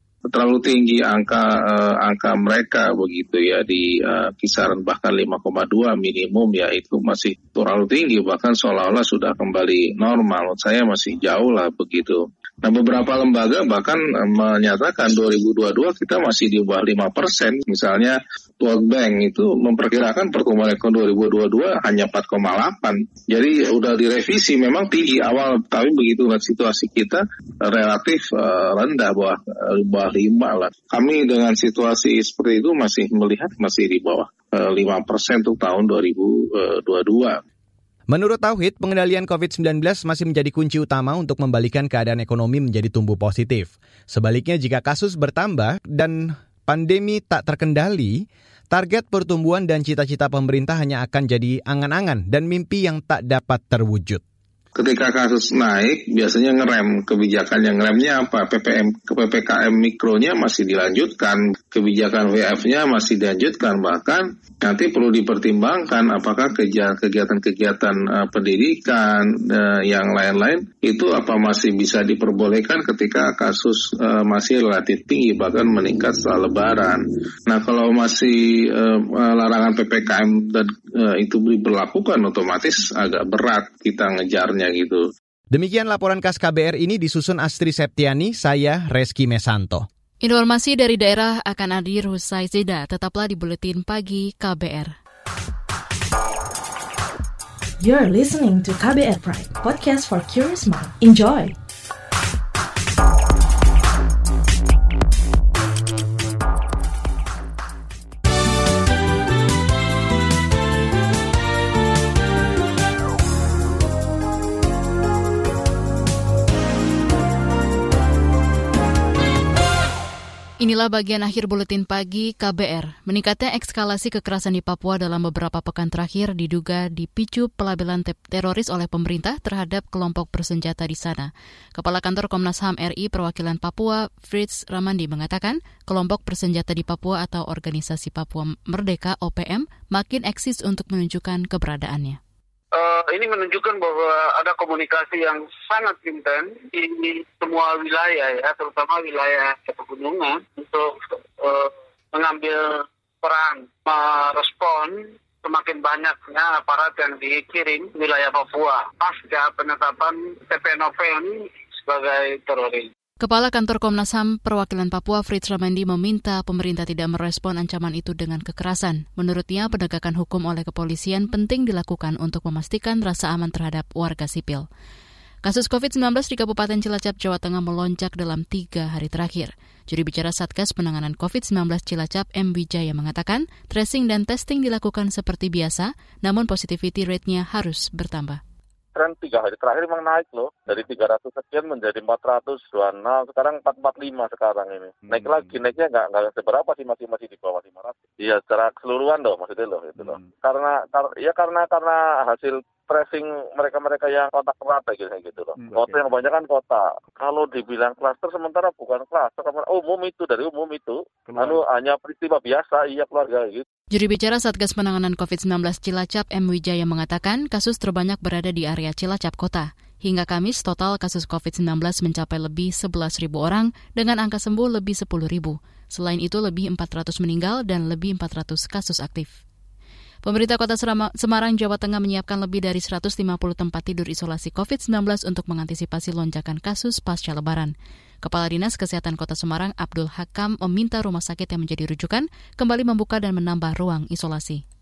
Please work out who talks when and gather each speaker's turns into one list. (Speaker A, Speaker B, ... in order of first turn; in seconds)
Speaker A: 0.3-37.4, 54.8-85.1
Speaker B: 38.1-54.2, 85.5-89.9
Speaker C: 90.2-94.9, 120.6-142.2, 163.2-174.7, 175.4-188.4, 213.9-229.4, 230.2-244.6
Speaker D: 97.8-101.5
Speaker E: 142.8-162.9
Speaker F: 188.9-213.7